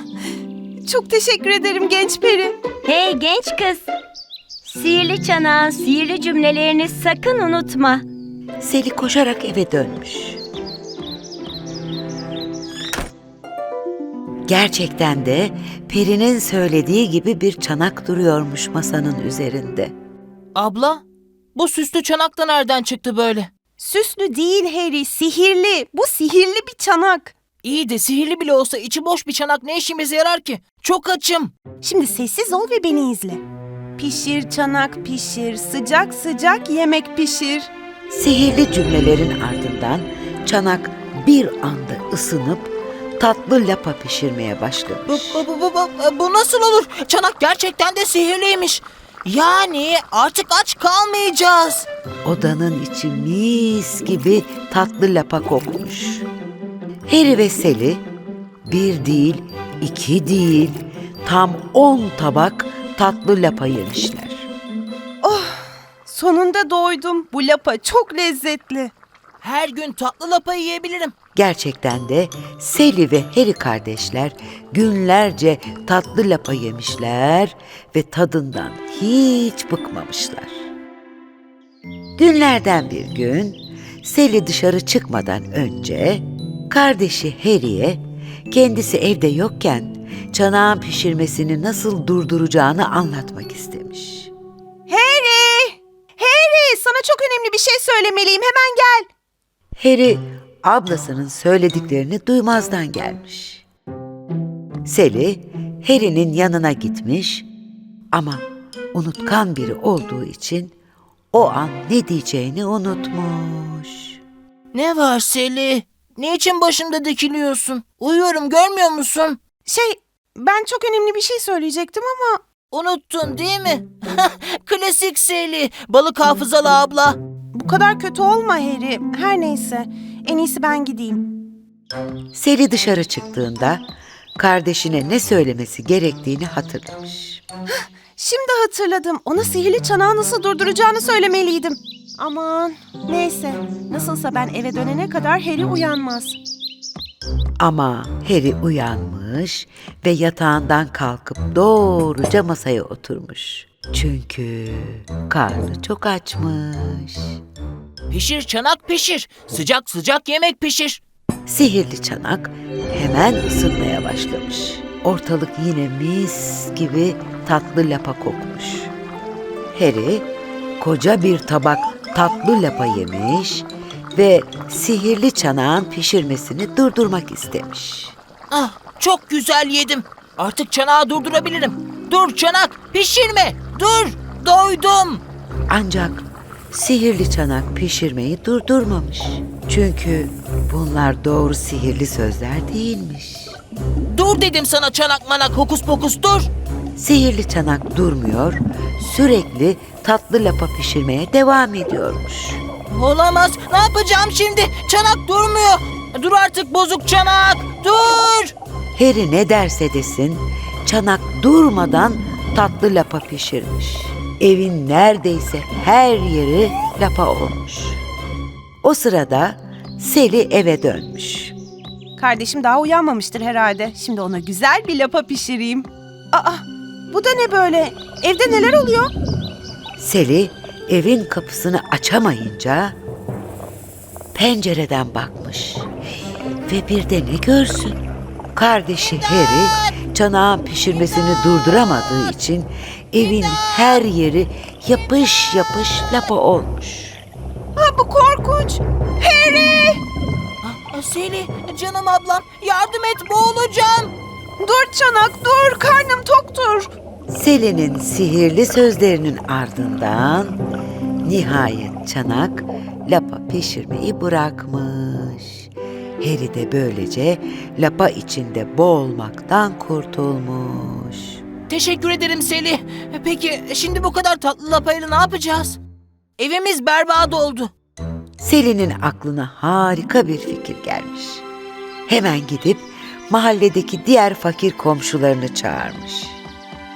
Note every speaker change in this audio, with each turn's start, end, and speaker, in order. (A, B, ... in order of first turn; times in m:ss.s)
0:00.8-0:02.6 A
0:02.8-0:03.8 B
0:04.6-0:08.0 B
0:08.6-0:10.4 C
0:14.5-0:19.9 C
0:20.6-0:21.0 D
0:21.5-0:23.5 D
0:23.8-0:27.4 A
0:27.6-0:31.5 D
0:31.8-0:33.4 A
0:34.0-0:37.7 A
0:38.1-0:45.4 C
0:45.1-0:51.9 D
0:52.2-0:56.2 C
0:57.1-0:58.0 C
0:58.7-1:04.5 C
1:05.2-1:08.9 A
1:09.4-1:11.1 D
1:11.3-1:20.6 C
1:22.2-1:34.3 C
1:34.9-1:39.1 A
1:39.8-1:43.6 C
1:44.8-1:47.5 C
1:48.1-1:48.4 C
1:48.9-1:50.7 C
1:51.3-1:54.2 C
1:54.7-1:59.4 D
1:59.6-2:02.4 A
2:02.7-2:07.2 D
2:07.5-2:11.3 A
2:12.3-2:13.8 C
2:14.4-2:17.4 C
2:17.7-2:26.4 A
2:27.6-2:37.4 C
2:38.1-2:41.0 D
2:41.5-2:48.9 C
2:49.7-2:50.3 C
2:50.8-2:58.1 C
2:58.5-3:05.2 D
3:05.7-3:13.6 C
3:14.1-3:16.5 D
3:17.0-3:22.6 C
3:22.9-3:28.5 D
3:29.0-3:38.0 C
3:38.8-3:41.5 C
3:42.2-3:49.1 A
3:50.0-3:53.0 C
3:54.3-3:55.9 C
3:56.7-3:58.0 C
3:58.5-4:07.2 C
4:07.8-4:10.0 A
4:10.6-4:14.1 D
4:14.6-4:16.9 A
4:17.3-4:20.6 C
4:21.2-4:25.7 C
4:26.2-4:31.4 C
4:31.7-4:35.8 D
4:36.4-4:37.7 D
4:38.4-4:41.4 C
4:42.1-4:46.4 C